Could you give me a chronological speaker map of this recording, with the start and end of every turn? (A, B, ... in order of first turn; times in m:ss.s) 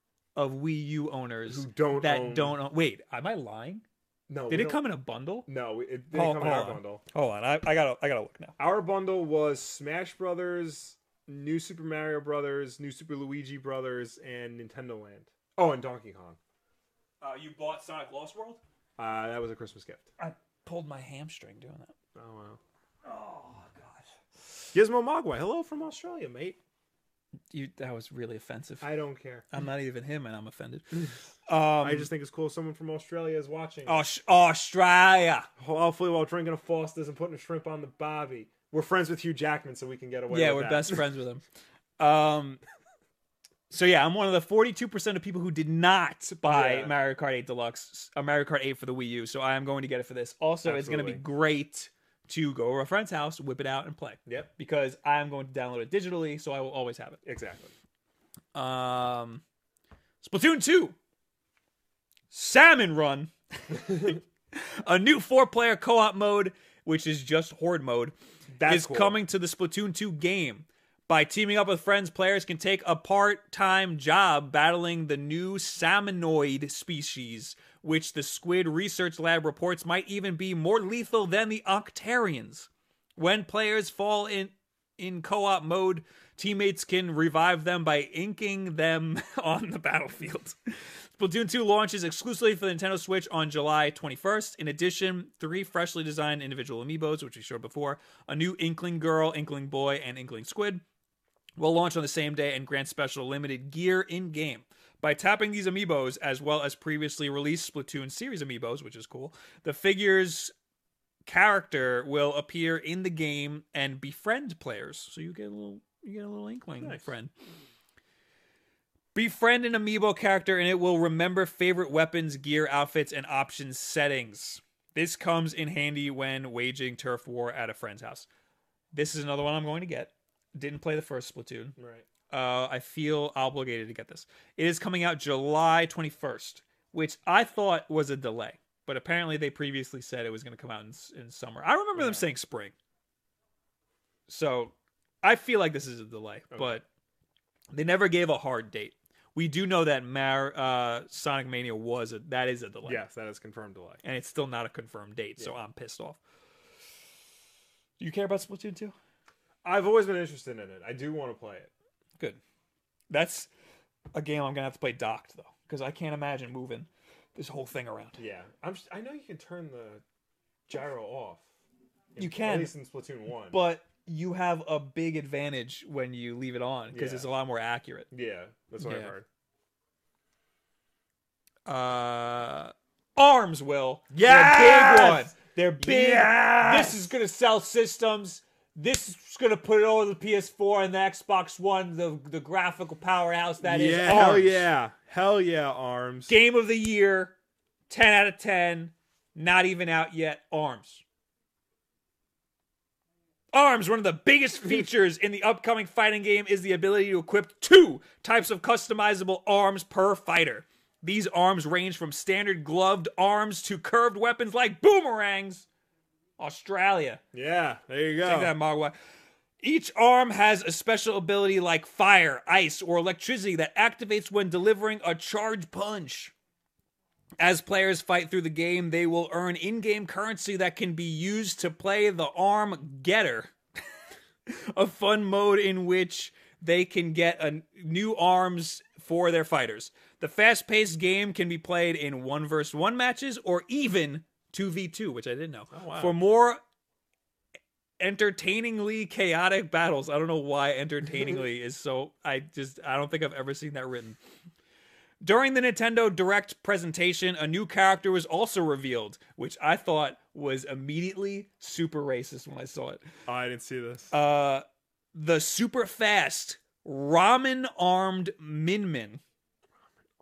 0:00.4-0:03.8 A
0:01.5-0:02.6 B
0:04.3-0:04.8 B
0:04.5-0:05.5 A
0:05.5-0:07.0 B
0:06.1-0:08.6 A
0:08.6-0:16.4 B
0:17.2-0:18.6 A
0:19.0-0:20.1 B
0:20.2-0:22.0 A
0:22.2-0:22.6 B
0:23.0-0:24.1 A
0:24.7-0:26.6 B
0:27.5-0:28.9 A
0:28.8-0:29.5 B
0:29.5-0:32.1 A
0:31.8-0:34.0 B
0:33.9-0:35.5 A
0:35.6-0:41.0 B
0:40.3-0:41.4 A
0:42.0-0:42.6 A
0:43.7-0:57.2 A
0:46.4-0:46.9 B
0:50.6-0:51.2 B
0:57.2-0:57.7 B
0:58.5-0:59.4 A
1:00.2-1:01.0 A
1:02.3-1:40.8 A
1:08.5-1:09.2 B
1:41.6-1:50.5 A
1:51.3-1:57.3 A
1:59.2-2:08.3 A
2:08.9-2:11.8 A
2:11.8-2:12.1 B
2:12.3-2:22.8 A
2:22.0-2:22.3 B
2:24.3-2:26.8 A
2:26.5-2:26.8 B
2:27.7-2:33.0 A
2:32.8-2:34.0 B
2:34.0-2:36.2 A
2:38.0-2:38.9 A
2:39.6-2:41.7 B
2:43.1-2:43.5 A
2:44.1-2:48.2 A
2:48.2-2:50.0 B
2:50.7-2:51.5 B
2:52.2-2:53.6 B
2:52.2-2:52.7 A
2:53.5-2:58.1 A
2:56.9-2:57.3 B
2:58.1-2:59.3 B
2:58.8-2:59.1 A
3:01.7-3:14.7 A
3:04.2-3:07.1 B
3:13.6-3:16.3 B
3:16.3-3:17.4 A
3:17.9-3:21.0 A
3:23.5-3:35.7 A
3:36.4-3:37.2 A
3:37.3-3:38.5 B
3:38.2-3:39.0 A
3:39.6-3:46.3 A
3:47.4-3:53.6 A
3:54.5-4:06.6 A
4:05.7-4:06.2 B
4:08.0-4:14.2 A
4:15.2-4:23.0 A
4:23.3-4:24.1 B
4:24.1-4:29.2 A